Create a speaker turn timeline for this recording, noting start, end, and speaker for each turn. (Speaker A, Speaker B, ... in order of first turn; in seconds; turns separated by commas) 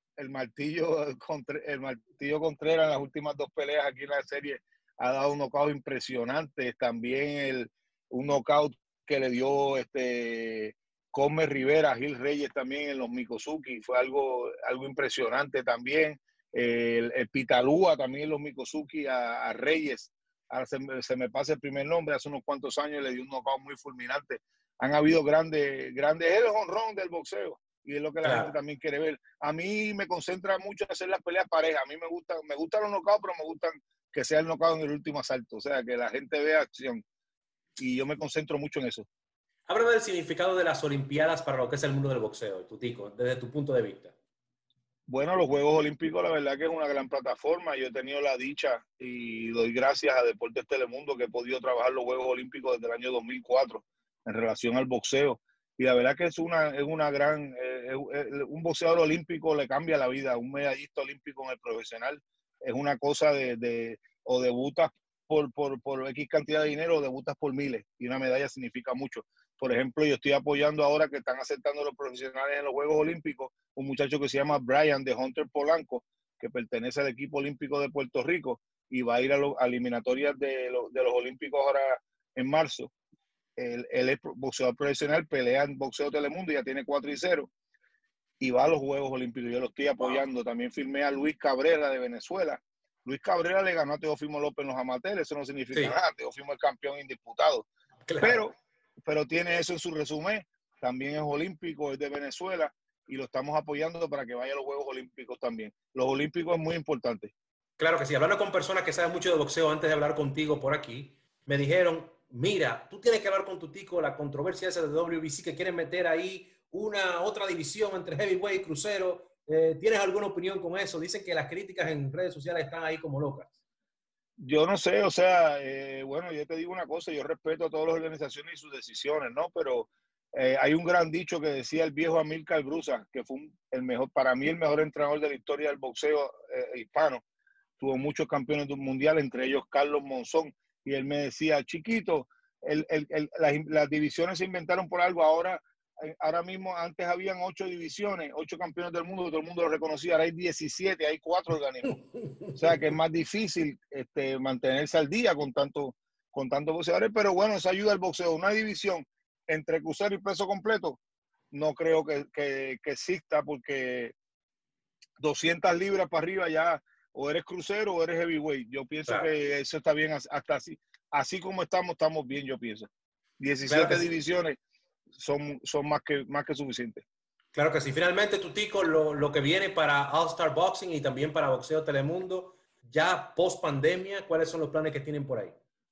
Speaker A: 0.2-37.0, Speaker B: 28.2-28.5, Speaker A: 37.8-39.1, Speaker B: 39.7-44.1, Speaker A: 45.1-82.9, Speaker A: 83.6-87.5, Speaker A: 88.4-97.7, Speaker B: 95.7-96.0, Speaker B: 98.1-98.4, Speaker A: 98.2-107.3, Speaker B: 107.8-123.5, Speaker A: 124.4-137.2, Speaker A: 137.8-161.0, Speaker A: 161.5-164.2, Speaker A: 165.2-172.9, Speaker A: 173.4-174.6, Speaker B: 173.7-174.1, Speaker A: 175.1-177.0, Speaker B: 177.6-185.6